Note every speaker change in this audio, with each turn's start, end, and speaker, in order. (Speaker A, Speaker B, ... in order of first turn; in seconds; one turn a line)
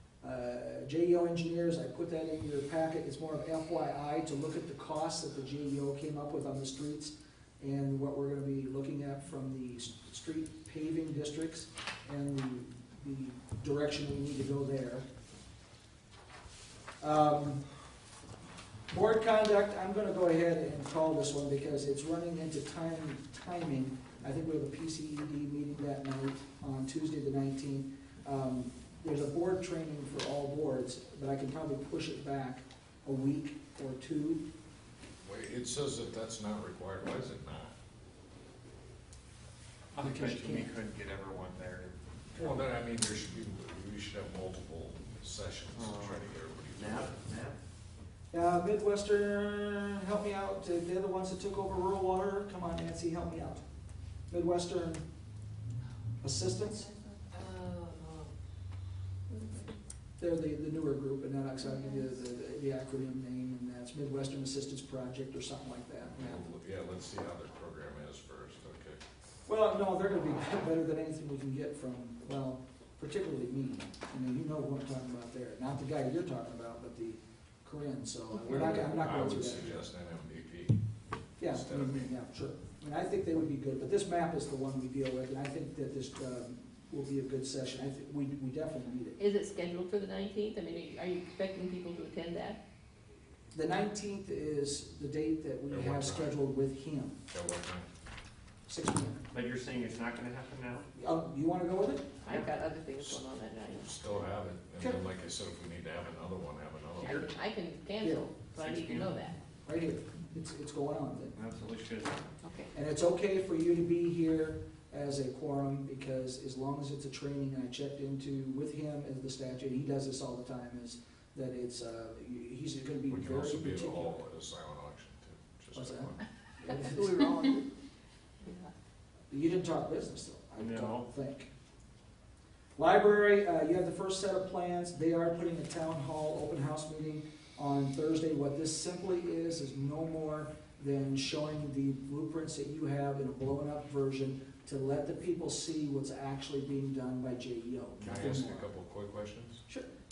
Speaker A: 0.2-15.0
Speaker A: 17.0-17.6
Speaker A: 18.9-34.4
Speaker B: 35.2-37.7
Speaker C: 39.9-42.0
Speaker A: 40.0-40.7
Speaker B: 42.3-47.2
Speaker C: 45.7-47.6
Speaker A: 48.3-53.6
Speaker A: 54.3-55.0
Speaker A: 56.2-56.9
Speaker D: 56.8-58.3
Speaker D: 59.3-59.6
Speaker A: 60.2-66.4
Speaker B: 66.2-69.0
Speaker A: 69.5-79.8
Speaker B: 78.3-80.8
Speaker A: 81.4-89.2
Speaker B: 81.4-82.1
Speaker D: 89.2-92.6
Speaker A: 93.5-97.2
Speaker B: 95.7-96.3
Speaker B: 97.3-97.8
Speaker A: 98.7-99.2
Speaker C: 99.3-100.9
Speaker A: 101.0-102.1
Speaker D: 102.2-103.9
Speaker C: 102.3-102.5
Speaker B: 103.0-103.2
Speaker B: 103.8-107.3
Speaker D: 107.0-109.4
Speaker A: 108.0-108.3
Speaker C: 108.5-109.3
Speaker A: 109.6-111.3
Speaker C: 111.3-112.2
Speaker D: 112.4-112.7
Speaker A: 112.7-124.2
Speaker B: 123.1-126.2
Speaker A: 125.7-127.5
Speaker D: 126.7-127.7
Speaker D: 128.4-128.7
Speaker A: 129.3-131.5
Speaker C: 130.6-131.1
Speaker A: 132.8-148.7
Speaker B: 148.0-149.6
Speaker A: 149.7-149.9